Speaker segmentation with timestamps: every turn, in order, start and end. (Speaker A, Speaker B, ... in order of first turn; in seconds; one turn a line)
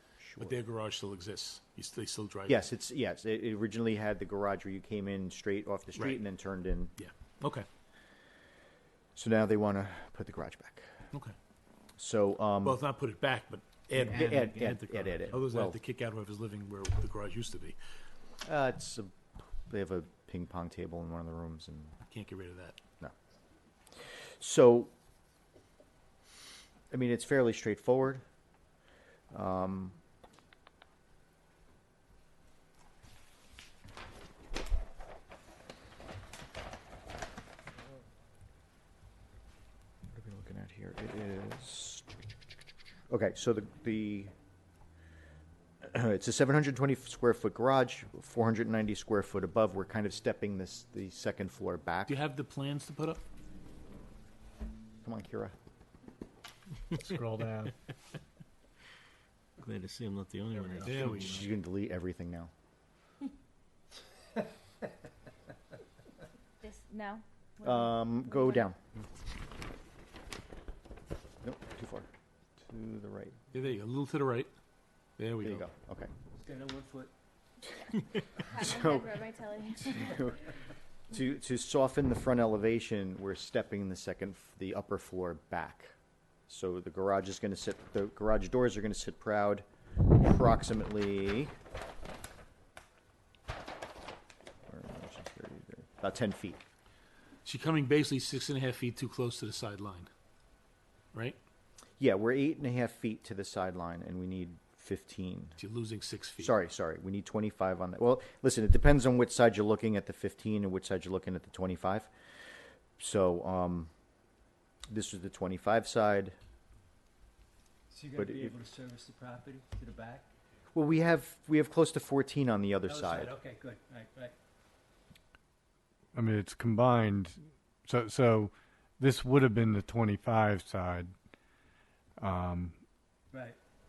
Speaker A: 0.2-0.6
Speaker B: 0.4-2.7
Speaker A: 2.5-6.9
Speaker B: 5.9-6.2
Speaker B: 7.0-7.7
Speaker A: 9.2-10.9
Speaker A: 12.0-12.8
Speaker B: 12.6-17.8
Speaker A: 13.9-15.8
Speaker C: 14.1-15.2
Speaker A: 18.4-21.9
Speaker B: 22.1-22.8
Speaker A: 23.9-24.9
Speaker A: 26.9-28.2
Speaker A: 29.3-30.0
Speaker A: 40.1-42.1
Speaker A: 43.1-44.3
Speaker A: 45.8-52.2
Speaker B: 52.1-53.2
Speaker A: 55.0-55.5
Speaker D: 56.9-57.7
Speaker C: 59.6-61.5
Speaker B: 60.8-61.5
Speaker A: 61.0-62.5
Speaker E: 66.6-68.7
Speaker A: 67.6-68.8
Speaker A: 71.4-72.1
Speaker A: 72.6-73.4
Speaker B: 73.5-74.5
Speaker B: 75.2-75.7
Speaker A: 75.4-76.1
Speaker F: 76.4-77.1
Speaker E: 78.5-80.2
Speaker A: 78.5-80.4
Speaker A: 81.1-85.9
Speaker A: 86.5-89.6
Speaker A: 90.2-91.5
Speaker A: 94.7-96.6
Speaker B: 97.4-100.1
Speaker B: 101.1-101.4
Speaker A: 102.0-105.6
Speaker B: 105.6-106.5
Speaker A: 106.4-112.1
Speaker A: 113.0-113.9
Speaker A: 114.9-116.3
Speaker F: 117.9-120.3
Speaker A: 118.1-118.5
Speaker A: 120.7-123.3
Speaker F: 122.9-124.3
Speaker D: 126.1-131.1
Speaker D: 132.2-132.8
Speaker F: 133.3-133.6